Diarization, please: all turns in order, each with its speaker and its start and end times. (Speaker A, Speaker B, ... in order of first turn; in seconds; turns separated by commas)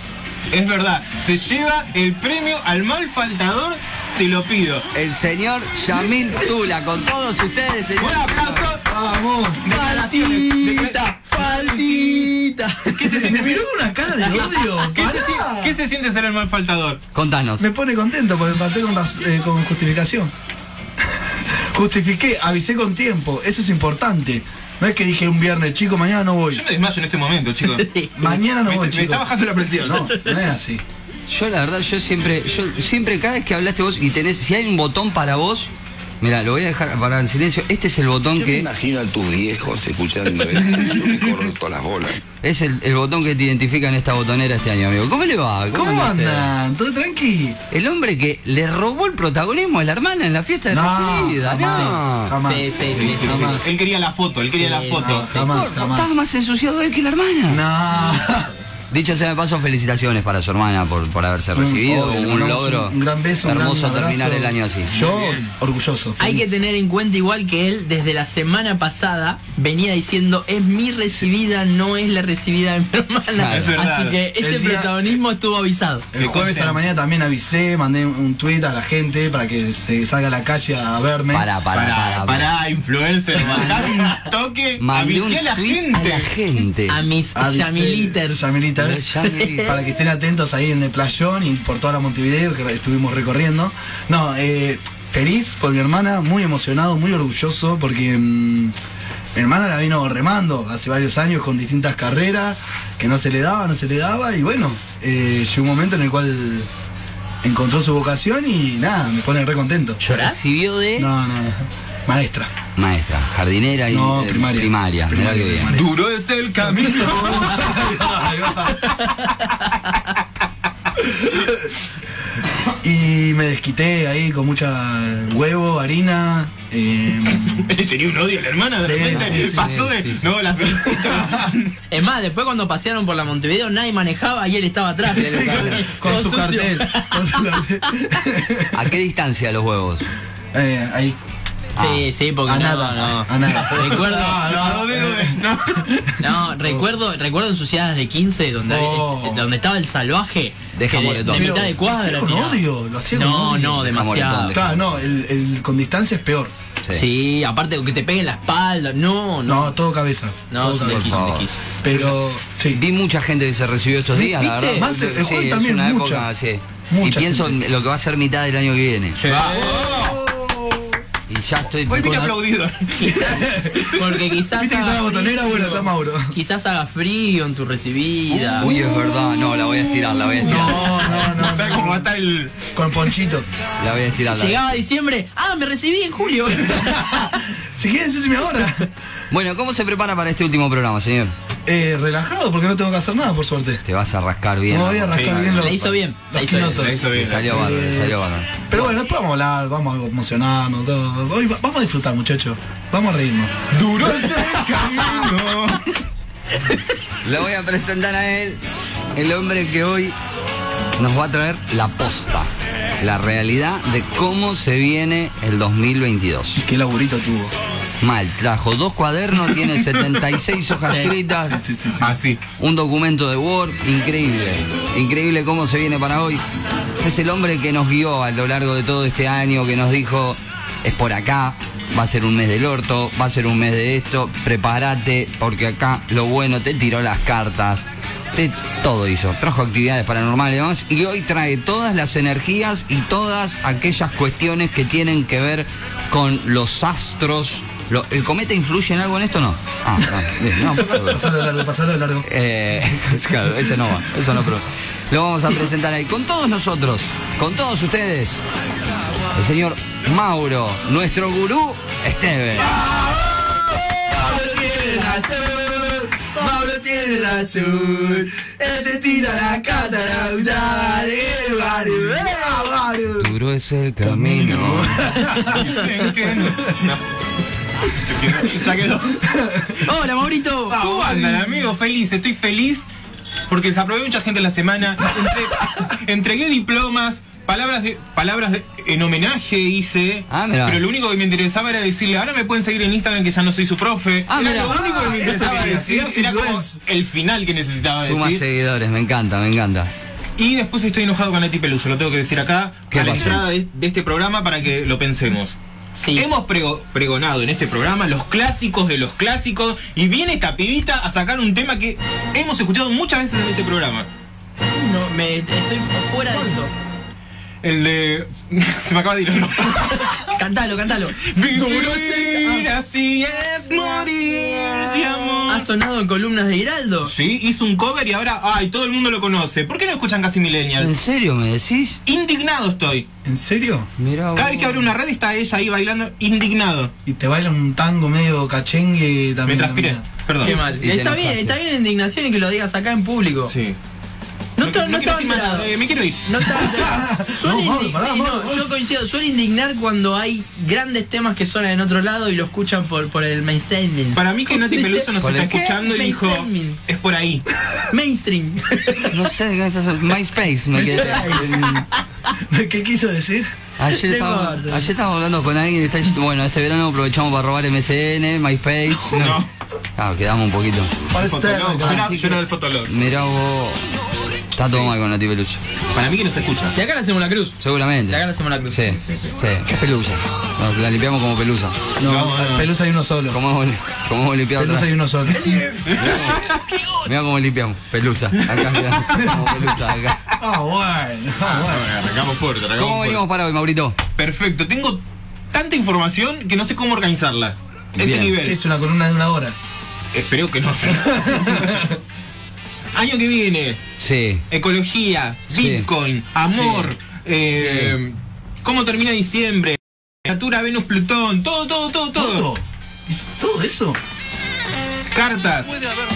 Speaker A: 0.5-4.9, Speaker B: 4.9-8.7, Speaker C: 6.0-6.3, Speaker A: 8.0-8.9, Speaker C: 8.8-12.4, Speaker A: 9.6-12.3, Speaker D: 10.2-13.2, Speaker A: 12.9-13.7, Speaker C: 13.0-15.8, Speaker D: 14.2-14.8, Speaker A: 14.9-17.0, Speaker B: 17.1-17.7, Speaker C: 17.6-20.3, Speaker C: 21.3-26.6, Speaker A: 26.5-27.8, Speaker D: 27.7-28.4, Speaker C: 28.1-29.3, Speaker A: 28.6-30.1, Speaker C: 29.8-30.8, Speaker B: 31.3-35.7, Speaker B: 36.2-38.7, Speaker E: 38.4-42.2, Speaker B: 42.4-46.5, Speaker C: 45.7-47.6, Speaker B: 47.7-52.3, Speaker C: 50.7-53.6, Speaker D: 52.4-53.6, Speaker A: 52.9-55.3, Speaker D: 54.5-55.6, Speaker C: 55.0-56.2, Speaker B: 55.3-57.6, Speaker C: 57.5-58.5, Speaker B: 58.9-64.9, Speaker C: 61.5-66.6, Speaker A: 64.9-65.5, Speaker D: 66.2-76.0, Speaker B: 73.3-73.8, Speaker A: 73.5-74.2, Speaker C: 74.4-75.2, Speaker C: 76.1-81.5, Speaker A: 76.2-76.8, Speaker B: 81.3-82.5, Speaker A: 81.7-86.3, Speaker C: 83.5-83.8, Speaker B: 84.8-87.0, Speaker D: 86.9-88.4, Speaker C: 87.3-98.7, Speaker B: 88.8-89.7, Speaker D: 89.2-89.8, Speaker C: 99.3-106.7, Speaker C: 107.4-110.0, Speaker D: 110.0-110.4, Speaker B: 110.0-111.1, Speaker C: 111.0-112.5, Speaker B: 112.8-115.7, Speaker C: 113.9-115.9, Speaker A: 115.7-117.9, Speaker C: 116.6-118.9, Speaker D: 118.8-119.9, Speaker C: 121.0-121.7, Speaker C: 122.8-127.6, Speaker A: 127.5-131.7, Speaker C: 128.8-129.8, Speaker B: 129.1-130.2, Speaker C: 131.0-131.5, Speaker D: 131.9-137.4, Speaker C: 135.1-138.9, Speaker B: 135.3-135.8, Speaker B: 138.7-140.1, Speaker C: 140.5-141.2, Speaker D: 141.8-144.5, Speaker B: 141.8-142.0, Speaker C: 142.4-146.8, Speaker A: 143.9-146.1, Speaker D: 146.2-154.6, Speaker C: 148.7-149.4, Speaker B: 150.7-151.7, Speaker C: 151.3-153.9, Speaker B: 153.8-154.9, Speaker C: 154.5-156.5, Speaker D: 156.9-159.8, Speaker C: 159.4-162.8, Speaker D: 160.5-161.6, Speaker B: 160.8-162.1, Speaker B: 162.7-169.2, Speaker D: 164.2-164.9, Speaker C: 164.7-166.3, Speaker C: 166.9-167.6, Speaker D: 169.2-169.7, Speaker A: 169.3-170.2, Speaker C: 169.3-171.0, Speaker B: 171.3-172.3, Speaker A: 171.8-173.4, Speaker D: 172.9-178.7, Speaker C: 173.2-176.3, Speaker A: 178.3-178.8, Speaker B: 178.6-181.1, Speaker C: 180.4-182.1, Speaker A: 180.4-182.6, Speaker C: 182.7-183.5, Speaker B: 183.8-184.7, Speaker D: 184.3-187.3, Speaker C: 186.8-188.9, Speaker B: 189.3-191.3, Speaker C: 191.7-193.8, Speaker B: 193.8-196.0, Speaker C: 194.7-205.1, Speaker A: 195.1-195.4, Speaker D: 195.5-196.8, Speaker A: 196.5-197.7, Speaker B: 197.1-198.9, Speaker A: 203.7-205.8, Speaker B: 207.2-208.6, Speaker B: 209.1-210.2, Speaker B: 211.0-216.6, Speaker C: 216.6-217.5, Speaker B: 218.0-221.6, Speaker D: 220.8-221.1, Speaker C: 221.3-222.2, Speaker A: 222.0-222.4, Speaker B: 222.6-226.4, Speaker B: 227.0-251.3, Speaker C: 250.6-252.2, Speaker B: 252.2-258.4, Speaker B: 259.3-262.8, Speaker C: 262.6-273.3, Speaker D: 271.9-272.3, Speaker B: 273.2-275.1, Speaker C: 274.0-275.8, Speaker A: 275.5-277.0, Speaker A: 277.9-279.2, Speaker C: 279.2-279.9, Speaker D: 279.8-280.8, Speaker C: 280.7-281.6, Speaker A: 280.7-282.9, Speaker A: 283.5-298.4, Speaker B: 290.3-290.8, Speaker B: 294.3-295.3, Speaker C: 294.6-296.8, Speaker B: 297.9-299.9, Speaker A: 300.4-305.6, Speaker B: 302.9-303.4, Speaker D: 305.9-306.3, Speaker A: 306.1-314.1, Speaker D: 314.7-316.7, Speaker A: 317.6-320.4, Speaker D: 320.1-322.7, Speaker A: 321.2-325.7, Speaker D: 325.5-327.1, Speaker A: 327.0-330.9, Speaker B: 330.8-332.0, Speaker A: 332.1-333.1, Speaker C: 333.2-333.9, Speaker B: 334.0-334.9, Speaker A: 334.3-336.9, Speaker C: 337.1-340.0, Speaker A: 339.4-340.6, Speaker D: 340.4-343.5, Speaker B: 340.5-341.6, Speaker A: 343.5-343.8, Speaker D: 344.6-356.8, Speaker A: 344.6-346.6, Speaker C: 346.7-348.7, Speaker A: 354.1-357.4, Speaker B: 355.2-355.6, Speaker D: 357.9-359.2, Speaker B: 359.1-361.8, Speaker C: 360.7-361.8, Speaker D: 360.7-362.0, Speaker C: 362.4-363.5, Speaker B: 363.8-369.4, Speaker D: 363.9-364.9, Speaker A: 369.1-369.5, Speaker B: 369.9-370.9, Speaker C: 371.1-372.1, Speaker A: 371.2-372.9, Speaker B: 371.8-373.8, Speaker B: 374.5-375.6, Speaker A: 374.6-374.9, Speaker A: 375.9-376.8, Speaker D: 376.7-379.0, Speaker B: 377.6-381.8, Speaker A: 379.0-379.3, Speaker C: 382.0-383.4, Speaker A: 382.0-382.7, Speaker B: 383.3-384.9, Speaker C: 384.6-386.0, Speaker A: 385.8-386.8, Speaker B: 385.9-386.5, Speaker B: 387.0-390.2, Speaker A: 388.4-389.0, Speaker C: 389.2-389.6, Speaker C: 390.4-391.9, Speaker A: 391.4-393.2, Speaker B: 392.8-394.0, Speaker A: 394.2-395.0, Speaker A: 395.5-398.6, Speaker B: 398.0-398.4, Speaker C: 398.4-399.6, Speaker A: 400.1-401.9, Speaker C: 400.9-402.0, Speaker A: 402.9-403.8, Speaker B: 404.0-404.4, Speaker A: 404.5-412.5, Speaker B: 405.5-405.9, Speaker B: 406.5-406.9, Speaker B: 407.5-407.9, Speaker C: 412.1-414.0, Speaker A: 415.1-415.8